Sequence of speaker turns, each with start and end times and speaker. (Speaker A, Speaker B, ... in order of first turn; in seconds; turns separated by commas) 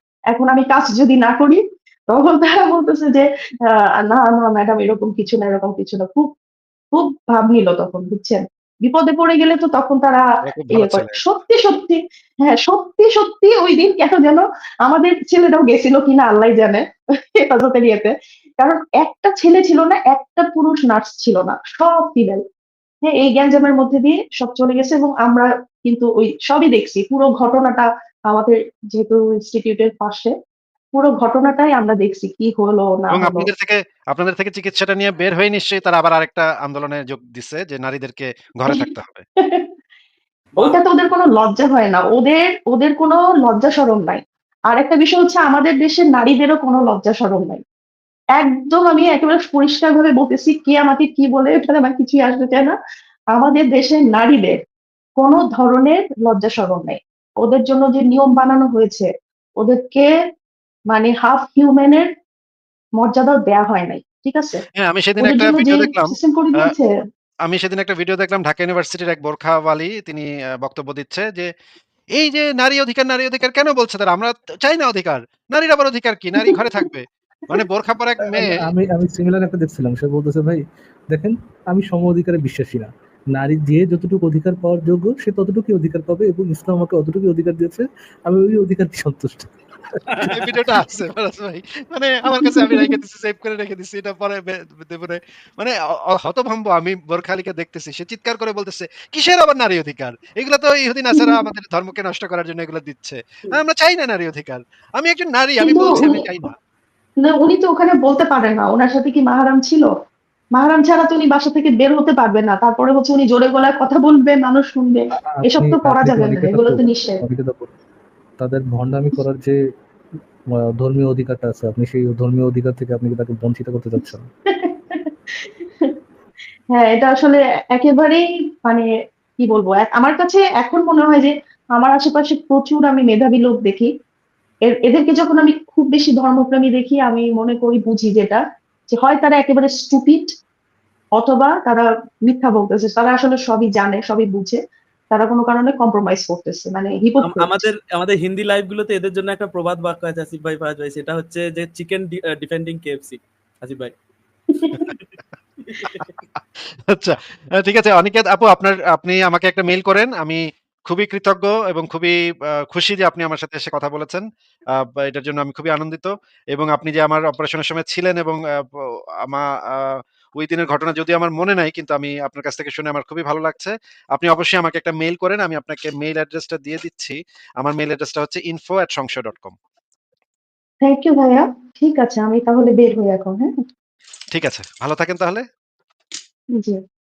Speaker A: 0.3-6.3, Speaker A: 6.9-16.8, Speaker B: 10.5-11.2, Speaker A: 17.3-22.4, Speaker A: 23.0-30.3, Speaker A: 30.9-33.5, Speaker B: 33.1-39.2, Speaker A: 39.4-39.7, Speaker A: 40.6-47.6, Speaker A: 48.4-52.8, Speaker A: 53.3-54.6, Speaker A: 55.2-59.1, Speaker A: 59.6-60.1, Speaker A: 60.9-62.1, Speaker A: 63.0-64.6, Speaker B: 64.8-66.7, Speaker A: 65.2-66.9, Speaker B: 67.5-71.5, Speaker B: 72.2-78.5, Speaker C: 78.2-90.2, Speaker B: 90.3-106.5, Speaker A: 92.4-92.9, Speaker A: 105.6-106.1, Speaker A: 107.2-109.9, Speaker A: 110.5-117.2, Speaker C: 115.2-117.7, Speaker C: 118.4-119.6, Speaker C: 120.5-124.3, Speaker A: 124.5-125.9, Speaker A: 126.7-128.9, Speaker A: 129.4-133.9, Speaker A: 134.7-140.3, Speaker A: 141.2-144.6, Speaker A: 145.1-147.6, Speaker D: 147.2-153.9, Speaker D: 155.6-156.1, Speaker B: 156.9-162.2, Speaker B: 162.7-164.2, Speaker B: 164.8-168.6, Speaker B: 169.3-179.6, Speaker A: 180.8-183.5, Speaker B: 184.3-185.4